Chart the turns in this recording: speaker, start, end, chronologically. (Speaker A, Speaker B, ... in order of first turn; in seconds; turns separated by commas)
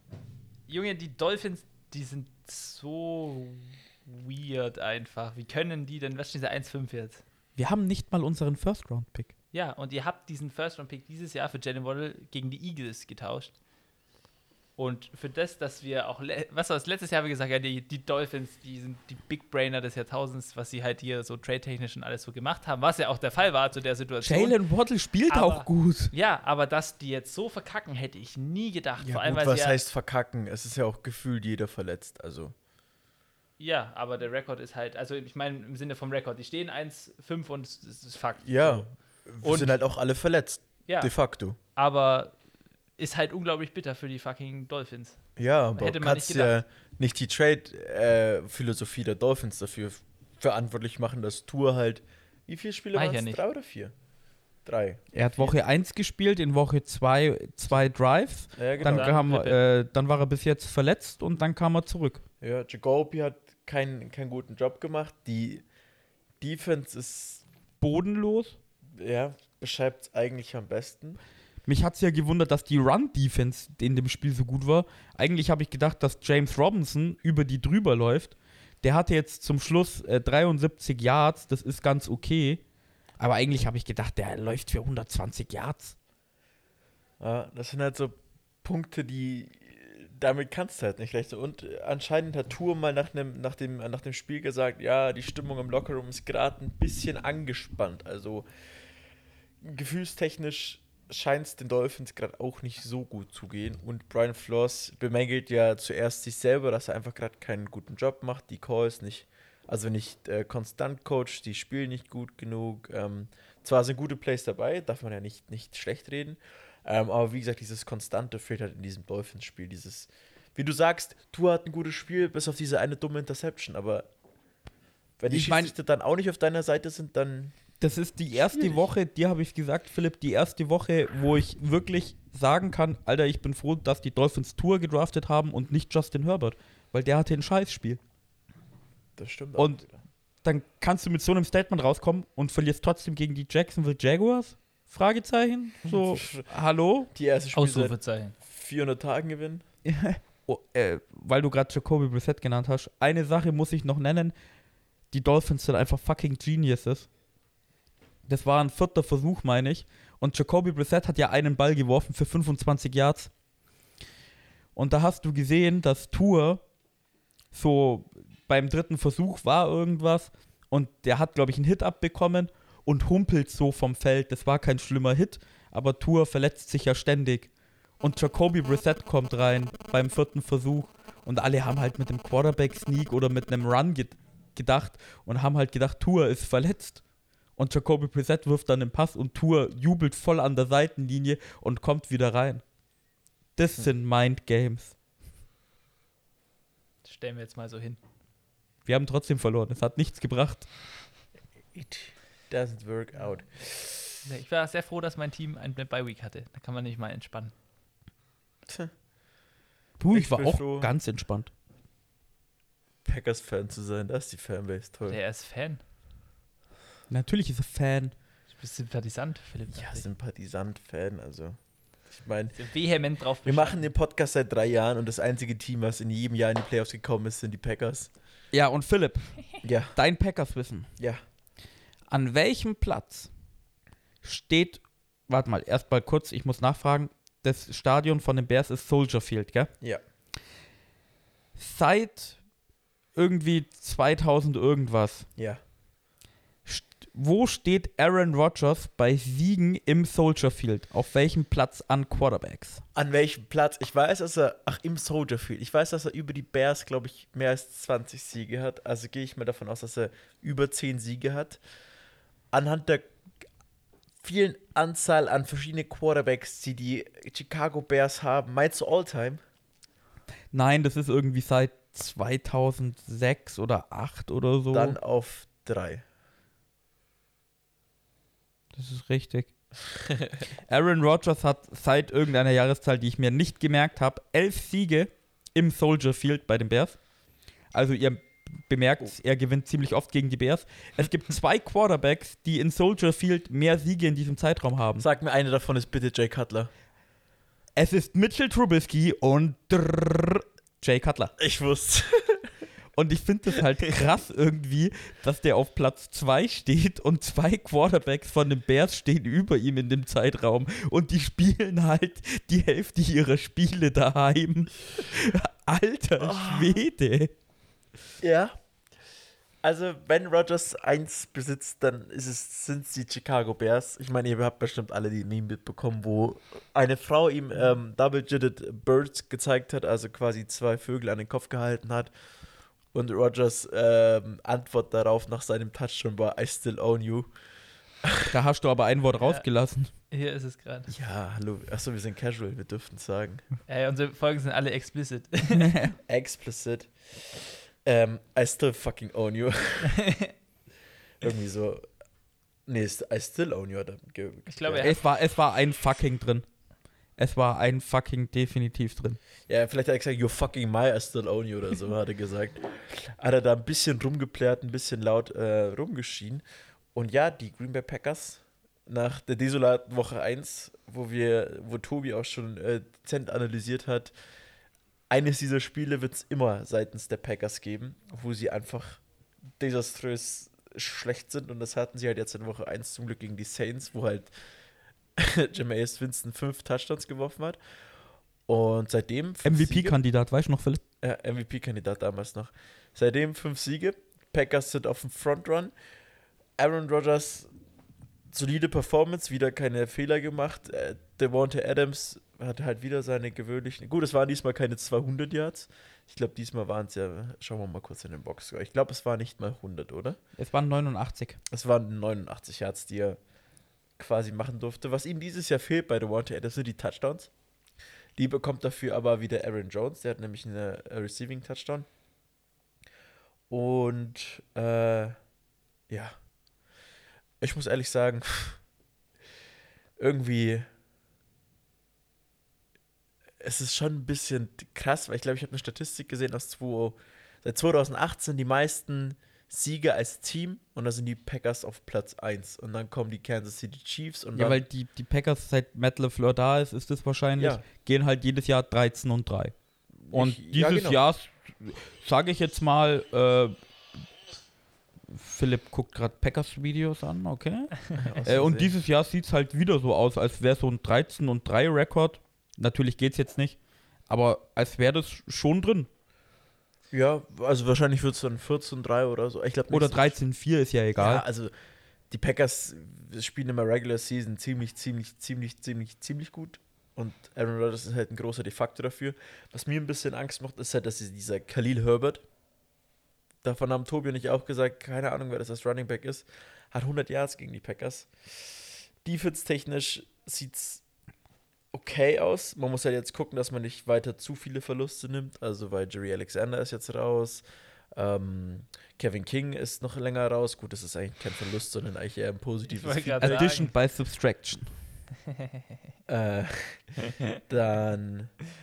Speaker A: 0.7-7.2, Speaker B: 7.5-9.3, Speaker A: 9.5-13.5, Speaker A: 14.8-24.6, Speaker B: 24.2-26.1, Speaker A: 25.3-29.8, Speaker C: 29.0-32.5, Speaker A: 33.6-38.9, Speaker C: 38.5-41.6, Speaker A: 39.4-39.8, Speaker A: 40.9-41.1, Speaker A: 41.7-42.3, Speaker A: 43.0-45.2, Speaker C: 45.4-53.9, Speaker A: 45.8-46.5, Speaker A: 52.9-53.4, Speaker C: 54.6-55.6, Speaker B: 55.1-62.2, Speaker C: 58.5-59.1, Speaker A: 58.8-59.6, Speaker C: 62.4-65.6, Speaker C: 66.4-67.4, Speaker B: 67.8-68.5, Speaker C: 68.9-71.2, Speaker B: 71.7-82.6, Speaker B: 83.2-85.9, Speaker C: 87.2-98.5, Speaker C: 99.6-124.1, Speaker C: 125.2-127.5, Speaker B: 125.3-125.7, Speaker B: 127.8-138.0, Speaker C: 128.4-128.8, Speaker C: 139.2-140.0, Speaker B: 139.6-139.8, Speaker B: 140.4-147.1, Speaker C: 145.8-146.5, Speaker C: 147.1-149.6, Speaker A: 147.5-148.3, Speaker B: 149.8-154.3, Speaker B: 155.1-157.1, Speaker B: 158.2-163.3, Speaker B: 164.7-166.6, Speaker B: 167.5-187.0, Speaker B: 187.6-192.6, Speaker B: 193.6-194.9, Speaker A: 197.0-198.0, Speaker B: 198.8-200.7, Speaker C: 201.7-204.1, Speaker A: 204.2-207.5, Speaker C: 208.7-208.9, Speaker B: 210.0-211.5, Speaker C: 210.1-210.9, Speaker C: 213.0-215.2, Speaker A: 215.0-215.8, Speaker B: 217.1-218.1, Speaker A: 218.5-220.1, Speaker C: 219.7-222.6, Speaker A: 222.5-223.8, Speaker C: 223.4-228.1, Speaker B: 228.5-229.4, Speaker C: 229.6-230.0, Speaker B: 229.9-230.9, Speaker B: 232.1-233.3, Speaker B: 234.2-239.7, Speaker B: 241.6-242.4, Speaker B: 243.1-245.3, Speaker B: 246.6-252.8, Speaker C: 252.9-261.6, Speaker C: 262.5-263.1, Speaker C: 264.2-269.4, Speaker B: 270.5-275.0, Speaker C: 274.7-276.0, Speaker B: 278.7-279.5, Speaker B: 280.7-287.0, Speaker B: 287.7-295.1, Speaker C: 295.0-296.7, Speaker B: 297.8-301.3, Speaker C: 301.4-302.5, Speaker B: 302.9-317.3, Speaker C: 316.2-316.8, Speaker C: 318.2-318.5, Speaker C: 319.6-332.1, Speaker C: 332.9-337.3, Speaker C: 338.0-338.3, Speaker B: 338.3-339.9, Speaker A: 340.1-340.9, Speaker C: 340.9-343.4, Speaker A: 343.7-345.7, Speaker B: 345.5-346.0, Speaker C: 346.1-350.1, Speaker A: 349.9-350.3, Speaker C: 351.2-351.9, Speaker C: 352.7-354.9, Speaker A: 354.5-355.0, Speaker B: 354.8-356.4, Speaker B: 357.2-359.2, Speaker C: 359.5-366.4, Speaker C: 366.9-374.1, Speaker C: 375.1-379.0, Speaker C: 379.6-384.3, Speaker C: 385.2-387.6, Speaker C: 388.5-390.0, Speaker B: 389.4-390.8, Speaker C: 391.0-395.7, Speaker C: 396.6-397.5, Speaker C: 398.3-410.2, Speaker B: 410.4-411.4, Speaker C: 411.5-413.2, Speaker C: 414.0-417.3, Speaker C: 418.2-421.9, Speaker C: 423.5-425.2, Speaker C: 425.9-426.1, Speaker C: 427.4-428.6, Speaker C: 430.0-430.7, Speaker C: 433.4-444.6, Speaker B: 444.4-449.5, Speaker C: 447.4-447.6, Speaker B: 450.1-453.5, Speaker C: 450.1-451.0, Speaker B: 455.1-463.6, Speaker C: 458.0-458.7, Speaker B: 464.1-465.9, Speaker C: 466.9-470.2, Speaker B: 469.7-471.2, Speaker C: 471.0-471.5, Speaker C: 472.1-482.2, Speaker C: 483.4-490.8, Speaker C: 491.7-503.5, Speaker A: 502.7-503.7, Speaker B: 503.2-504.7, Speaker C: 506.1-508.3